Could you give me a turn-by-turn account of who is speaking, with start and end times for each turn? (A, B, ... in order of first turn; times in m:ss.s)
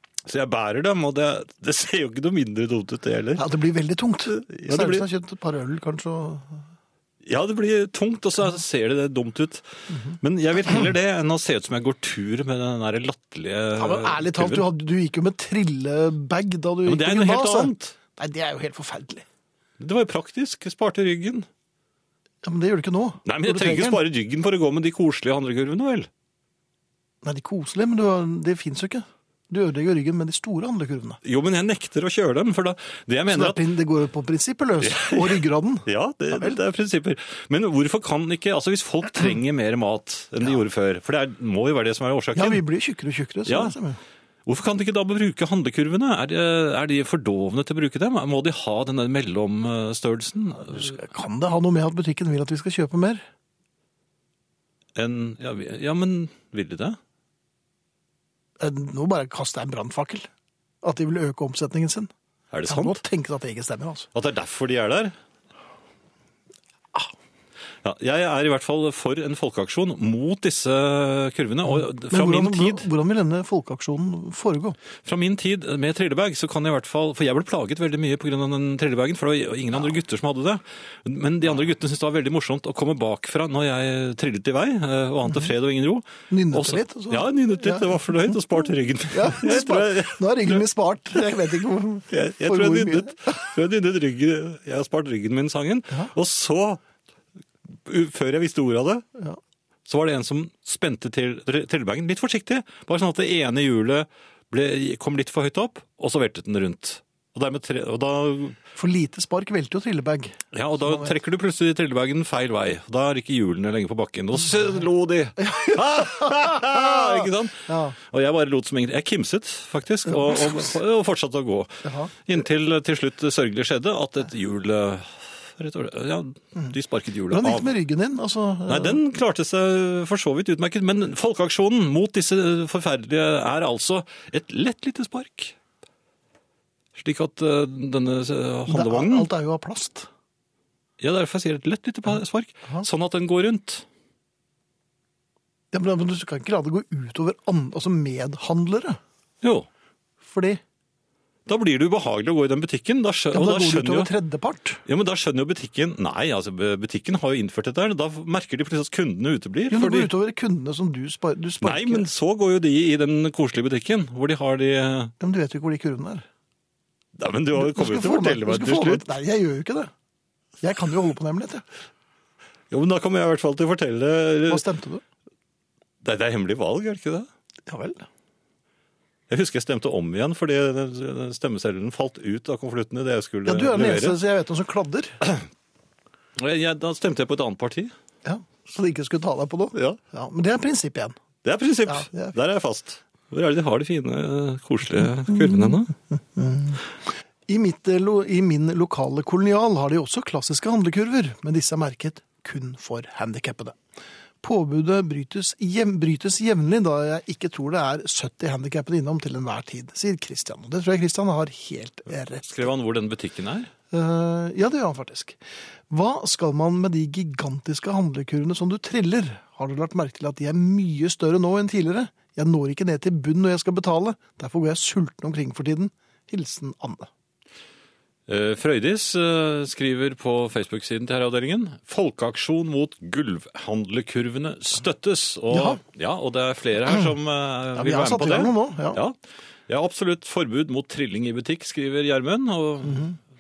0:00.2-0:03.4 A
0:03.4-0:06.6 B
0:04.3-0:05.1 A
0:07.2-0:14.6 A
0:09.9-0:10.2 B
0:13.8-0:19.2 B
0:16.8-0:18.0 A
0:19.8-0:21.5 A
0:22.4-0:24.0 B
0:23.2-0:26.1 A
0:27.2-0:31.2 B
0:31.2-0:33.6 A
0:33.3-0:36.6 B
0:34.8-0:42.6 A
0:42.3-0:44.0 B
0:43.5-0:43.8 A
0:44.4-0:51.0 A
0:50.6-0:53.2 B
0:55.0-0:57.0 A
0:58.6-1:00.3 B
1:00.8-1:02.1 B
1:02.5-1:03.0 A
1:02.7-1:04.1 B
1:04.1-1:05.1 A
1:07.8-1:12.9 A
1:11.7-1:14.8 B
1:15.0-1:30.6 A
1:26.3-1:28.0 B
1:29.1-1:33.5 B
1:32.1-1:36.8 A
1:37.7-1:39.0 A
1:39.8-1:48.6 A
1:48.7-1:51.1 B
1:50.5-2:07.7 A
1:55.4-1:58.0 B
2:01.8-2:02.1 B
2:07.3-2:09.0 B
2:08.7-2:15.6 A
2:16.9-2:19.3 A
2:18.7-2:20.1 B
2:21.0-2:23.8 A
2:25.7-2:29.0 B
2:29.4-2:29.7 A
2:30.2-2:30.6 B
2:31.4-2:34.1 A
2:33.3-2:34.8 B
2:34.8-2:40.1 A
2:39.7-2:42.1 B
2:41.6-2:45.1 A
2:45.2-2:46.2 B
2:47.2-2:49.1 A
2:47.6-2:49.9 B
2:50.6-2:51.6 B
2:52.7-2:54.6 A
2:54.5-2:55.0 B
2:56.0-2:57.3 A
2:57.7-2:58.0 B
2:59.3-3:04.2 A
3:03.4-3:05.2 B
3:06.4-3:07.9 A
3:08.2-3:11.2 B
3:11.4-3:15.9 A
3:11.9-3:12.4 B
3:16.3-3:16.8 B
3:17.5-3:23.8 B
3:24.4-3:32.6 B
3:32.4-3:33.7 A
3:33.9-3:35.4 B
3:35.9-3:47.1 B
3:48.3-3:59.2 A
3:55.5-3:55.8 B
3:57.7-3:59.0 B
3:59.7-4:03.1 A
4:02.9-4:03.1 B